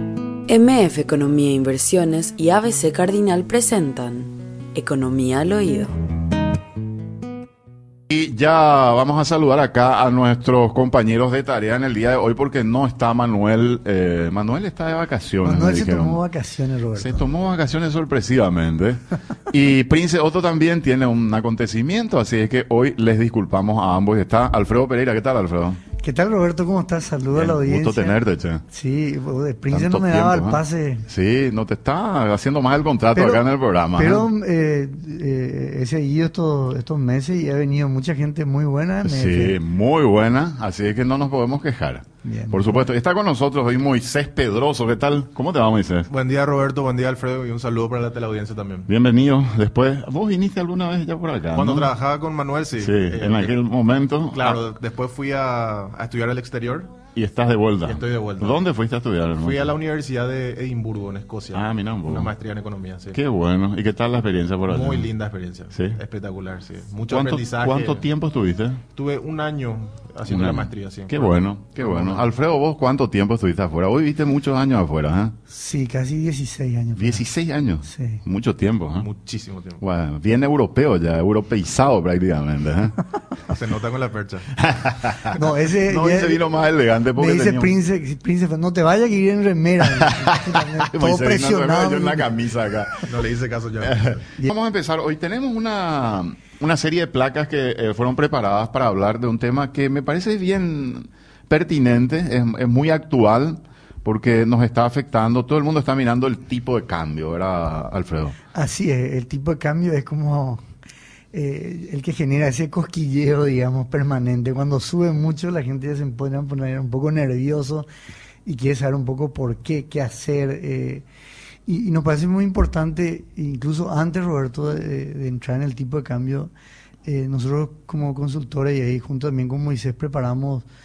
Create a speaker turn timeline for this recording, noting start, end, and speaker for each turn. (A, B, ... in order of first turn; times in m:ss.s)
0:00.5-0:05.9 A
0:08.1-0:16.2 B
0:15.4-0:17.2 C
0:17.0-0:25.8 B
0:26.0-0:31.1 C
0:27.3-0:28.6 B
0:29.7-0:34.3 B
0:33.1-0:33.4 C
0:34.0-0:39.6 C
0:39.0-0:46.1 B
0:42.2-0:42.8 C
0:46.1-0:48.9 D
0:48.9-0:51.9 B
0:51.5-0:53.5 D
0:52.8-0:54.6 B
0:54.3-0:57.0 D
0:57.2-0:59.7 B
0:57.8-0:58.6 D
0:59.4-1:03.2 D
1:01.5-1:02.3 B
1:03.1-1:05.1 B
1:04.7-1:08.0 D
1:05.7-1:06.0 B
1:07.1-1:08.8 B
1:09.0-1:12.3 D
1:10.3-1:15.4 B
1:15.5-1:17.2 C
1:17.0-1:19.1 B
1:17.8-1:18.2 C
1:19.0-1:19.8 D
1:19.8-1:23.0 B
1:23.5-1:24.6 D
1:24.6-1:27.8 B
1:25.4-1:26.4 C
1:27.2-1:32.3 C
1:30.0-1:33.1 B
1:33.0-1:34.2 D
1:33.8-1:48.4 B
1:48.5-1:50.6 C
1:51.3-1:57.9 C
1:58.4-2:01.0 C
2:01.7-2:06.5 C
2:07.0-2:10.7 C